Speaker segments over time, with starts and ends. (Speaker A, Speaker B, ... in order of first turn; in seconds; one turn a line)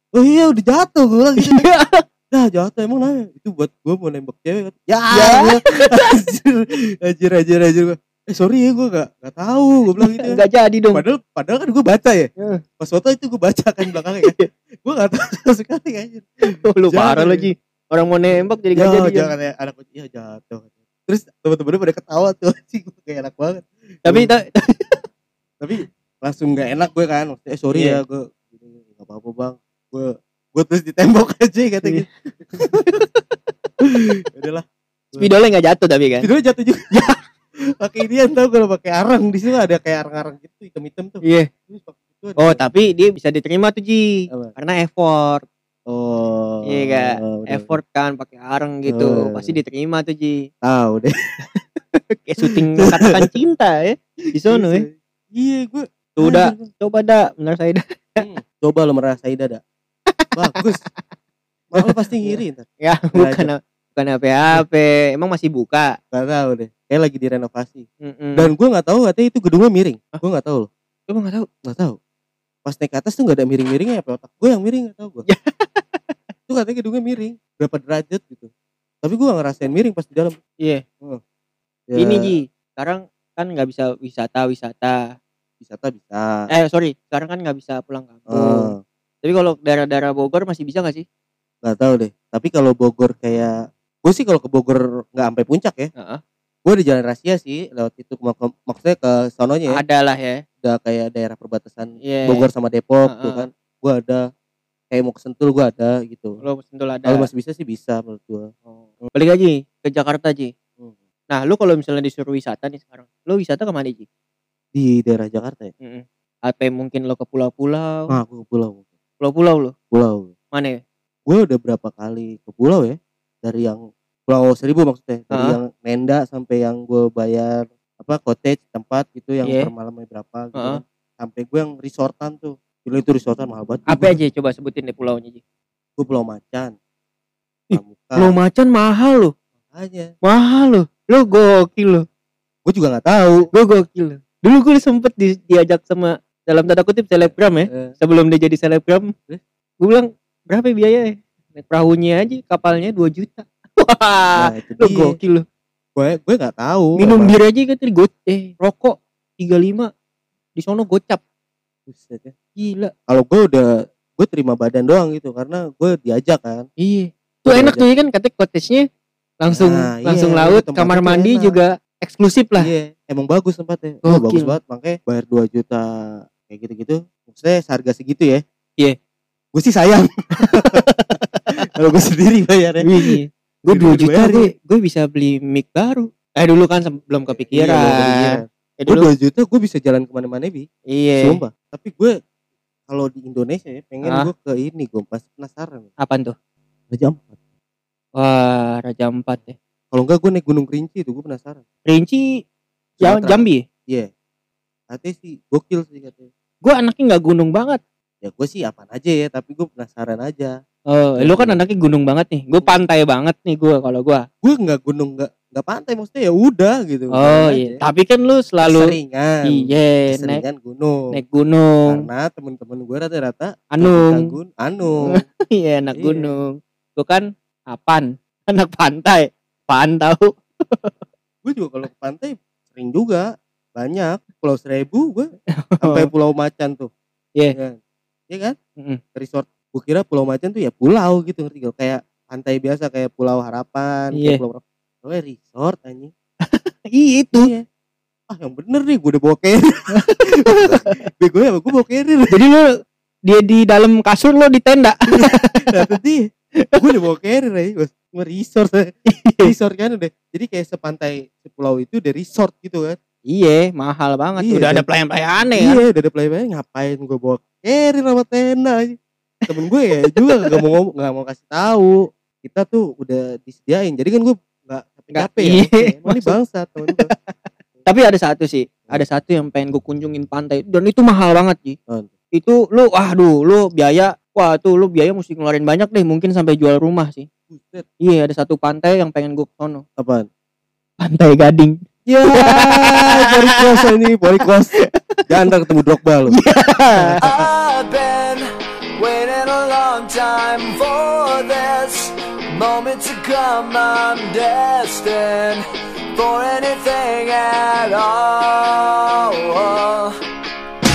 Speaker A: 0.1-1.6
Speaker B: 1.4-2.0
Speaker A: 2.3-10.4
Speaker B: 5.1-6.1
Speaker B: 10.0-11.0
Speaker A: 10.9-17.5
Speaker B: 13.8-14.5
Speaker B: 16.6-19.3
Speaker A: 18.8-24.3
Speaker B: 24.0-25.0
Speaker A: 25.6-33.0
Speaker B: 27.7-28.0
Speaker B: 31.8-33.2
Speaker A: 33.8-35.3
Speaker B: 35.1-36.3
Speaker A: 36.2-37.1
Speaker A: 37.8-42.6
Speaker B: 41.2-41.5
Speaker B: 42.4-45.4
Speaker A: 45.9-47.7
Speaker B: 46.6-50.4
Speaker A: 48.9-49.6
Speaker A: 50.6-51.1
Speaker B: 51.9-54.9
Speaker A: 52.5-53.3
Speaker A: 54.4-56.7
Speaker B: 56.2-58.2
Speaker A: 58.2-59.6
Speaker B: 60.2-60.6
Speaker A: 60.3-60.8
Speaker A: 61.7-63.5
Speaker B: 61.8-65.9
Speaker A: 66.1-70.7
Speaker B: 68.0-68.5
Speaker B: 71.1-71.5
Speaker A: 71.6-72.0
Speaker A: 72.6-75.2
Speaker B: 75.3-76.1
Speaker A: 76.5-78.5
Speaker A: 79.0-80.4
Speaker A: 81.9-82.3
Speaker B: 82.0-85.1
Speaker A: 85.6-86.5
Speaker B: 86.5-88.7
Speaker A: 88.3-88.8
Speaker B: 89.2-91.0
Speaker A: 91.6-95.9
Speaker A: 96.6-99.8
Speaker B: 99.7-100.4
Speaker A: 100.6-104.2
Speaker B: 102.0-102.5
Speaker B: 103.0-103.5
Speaker A: 104.9-106.4
Speaker B: 106.4-107.3
Speaker A: 107.0-108.6
Speaker B: 109.1-110.5
Speaker B: 111.3-114.0
Speaker A: 114.7-115.7
Speaker B: 115.8-118.2
Speaker A: 118.1-118.8
Speaker B: 119.2-119.7
Speaker A: 119.9-120.3
Speaker B: 120.5-120.8
Speaker A: 121.2-134.2
Speaker B: 125.3-125.6
Speaker B: 129.4-129.7
Speaker B: 130.5-130.8
Speaker B: 133.9-135.4
Speaker A: 136.0-136.7
Speaker B: 137.7-139.3
Speaker A: 137.7-138.3
Speaker A: 139.7-140.1
Speaker B: 140.2-142.0
Speaker A: 142.7-143.5
Speaker B: 143.5-149.1
Speaker B: 149.8-155.4
Speaker A: 154.4-155.2
Speaker A: 155.9-157.3
Speaker B: 157.0-159.9
Speaker B: 160.6-161.2
Speaker A: 161.9-162.3
Speaker B: 162.6-162.9
Speaker A: 163.1-166.7
Speaker B: 166.8-168.8
Speaker A: 167.4-167.8
Speaker B: 169.4-172.7
Speaker A: 169.5-171.6
Speaker A: 172.6-178.4
Speaker B: 174.0-174.5
Speaker A: 179.5-181.2
Speaker B: 180.4-180.8
Speaker A: 181.7-183.2
Speaker B: 182.8-189.1
Speaker A: 183.7-184.5
Speaker A: 187.3-190.7
Speaker B: 190.9-191.4
Speaker A: 191.2-192.1
Speaker A: 192.9-195.9
Speaker B: 194.0-194.3
Speaker B: 196.0-196.3
Speaker A: 196.9-197.3
Speaker B: 198.2-199.6
Speaker A: 199.9-201.6
Speaker B: 201.9-202.2
Speaker A: 203.0-204.1
Speaker B: 203.0-203.6
Speaker A: 204.9-206.3
Speaker B: 206.6-207.8
Speaker A: 208.2-210.5
Speaker B: 210.9-214.2
Speaker A: 211.2-211.6
Speaker A: 214.4-217.8
Speaker B: 217.1-218.9
Speaker A: 218.6-221.2
Speaker B: 219.5-220.4
Speaker B: 221.1-222.0
Speaker A: 221.8-225.2
Speaker B: 223.7-224.3
Speaker B: 225.1-230.9
Speaker A: 225.9-226.3
Speaker A: 231.4-235.3
Speaker B: 235.6-236.1
Speaker A: 235.8-236.9
Speaker A: 238.3-238.6
Speaker A: 239.1-246.1
Speaker B: 244.1-244.4
Speaker B: 246.4-247.5
Speaker A: 247.3-247.6
Speaker A: 248.3-252.4
Speaker B: 249.9-250.9
Speaker B: 252.3-252.7
Speaker B: 253.2-255.9
Speaker A: 255.1-263.0
Speaker B: 259.1-259.5
Speaker B: 263.3-265.8
Speaker A: 264.4-264.9
Speaker A: 265.5-268.9
Speaker A: 269.5-277.1
Speaker B: 269.9-270.6
Speaker B: 275.1-276.3
Speaker B: 276.9-277.3
Speaker B: 277.9-281.8
Speaker B: 282.3-287.3
Speaker A: 287.5-287.8
Speaker B: 288.0-289.8
Speaker A: 290.0-290.2
Speaker B: 291.0-293.9
Speaker A: 292.1-294.7
Speaker B: 294.8-295.2
Speaker A: 295.3-296.4
Speaker B: 296.3-297.2
Speaker A: 296.9-297.5
Speaker C: 297.2-298.4
Speaker C: 299.0-305.6
Speaker C: 306.1-310.2